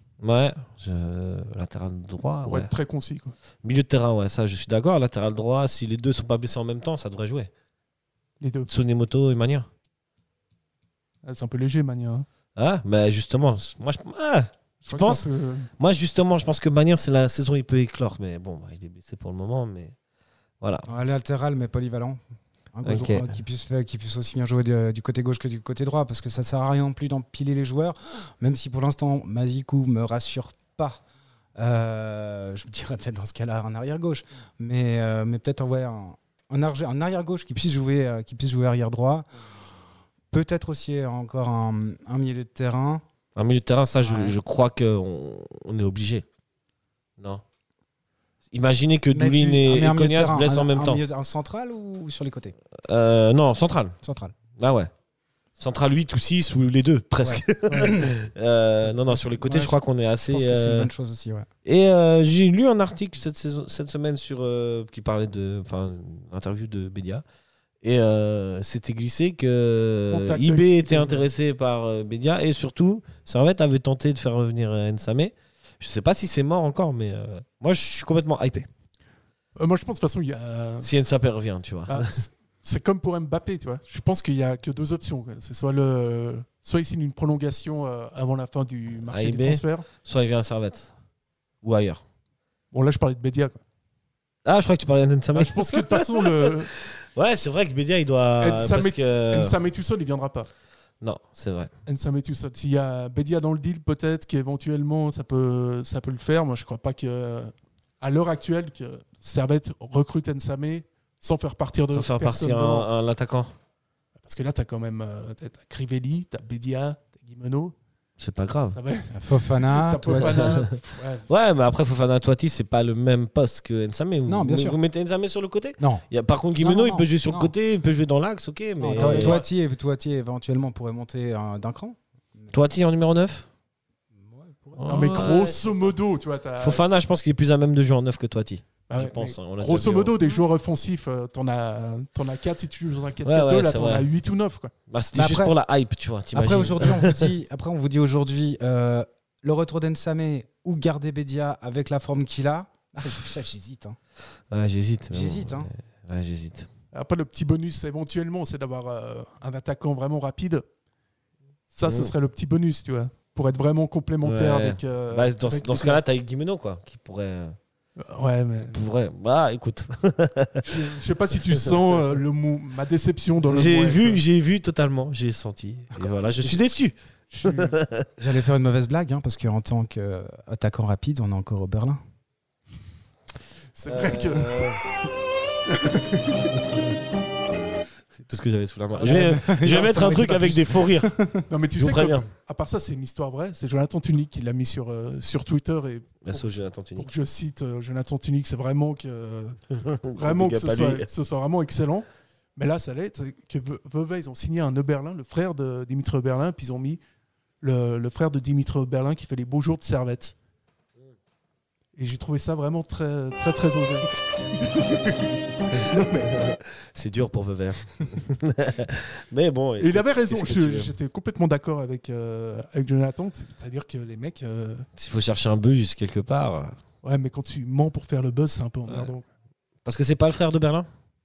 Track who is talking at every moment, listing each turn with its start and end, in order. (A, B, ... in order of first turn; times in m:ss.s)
0:00.2-0:02.7 A
0:02.4-0:03.4 B
0:03.6-0:07.5 A
0:08.4-0:08.7 B
0:08.7-0:09.7 A
0:11.2-0:12.3 B
0:12.6-0:15.3 A
0:14.9-0:15.7 B
0:15.8-0:20.0 A
0:20.6-0:20.9 A
0:20.9-0:22.2 C
0:22.7-0:31.0 C
0:22.8-0:23.3 A
0:31.6-0:39.3 C
0:40.3-0:43.0 C
0:43.4-0:46.2 A
0:44.0-0:44.4 C
0:48.5-0:51.0 A
0:49.1-0:52.6 C
0:52.8-0:54.0 A
0:54.0-0:54.4 C
0:54.6-0:54.9 A
0:55.6-1:00.9 A
0:57.2-0:58.1 C
0:59.3-1:01.5 C
1:01.6-1:07.2 A
1:07.8-1:18.7 A
1:10.1-1:11.3 B
1:19.6-1:20.9 B
1:20.8-1:22.1 A
1:21.9-1:29.9 B
1:29.1-1:30.9 A
1:31.6-1:32.0 A
1:32.7-1:33.6 B
1:34.4-1:39.6 A
1:35.4-1:36.7 B
1:38.4-1:40.5 B
1:41.0-1:41.7 A
1:41.9-1:52.9 B
1:51.9-1:53.5 A
1:54.2-1:57.8 B
1:58.2-1:58.8 A
1:58.7-2:01.3 B
1:59.1-2:00.6 C
2:00.2-2:00.6 A
2:01.3-2:09.4 A
2:04.2-2:04.8 C
2:05.8-2:06.1 C
2:06.6-2:07.5 C
2:08.8-2:12.6 C
2:08.9-2:09.5 B
2:12.5-2:13.5 A
2:14.2-2:15.8 C
2:14.8-2:15.6 A
2:14.9-2:16.9 B
2:16.6-2:20.2 A
2:18.9-2:24.7 B
2:23.2-2:24.1 A
2:24.9-2:27.3 A
2:25.1-2:25.6 C
2:26.3-2:34.0 C
2:34.5-2:36.7 A
2:35.1-2:35.7 C
2:36.9-2:40.6 B
2:41.7-2:46.0 B
2:41.8-2:42.1 A
2:44.2-2:47.6 A
2:48.0-2:48.8 B
2:48.7-2:50.6 A
2:50.6-2:54.2 B
2:53.5-2:58.1 A
2:56.0-2:56.8 C
2:57.3-2:57.8 B
2:58.2-3:02.0 C
3:03.8-3:04.9 B
3:03.9-3:04.8 A
3:05.7-3:06.2 B
3:08.1-3:11.1 A
3:09.0-3:10.2 B
3:09.0-3:11.4 C
3:11.5-3:19.6 B
3:11.8-3:12.3 A
3:16.2-3:17.1 A
3:19.8-3:21.1 A
3:20.1-3:27.0 B
3:27.6-3:30.4 B
3:32.0-3:34.1 B
3:34.6-3:35.2 B
3:35.8-3:36.5 B
3:36.2-3:40.9 A
3:39.8-3:44.8 B
3:45.0-3:46.8 A
3:47.0-3:49.2 B
3:49.8-3:50.9 A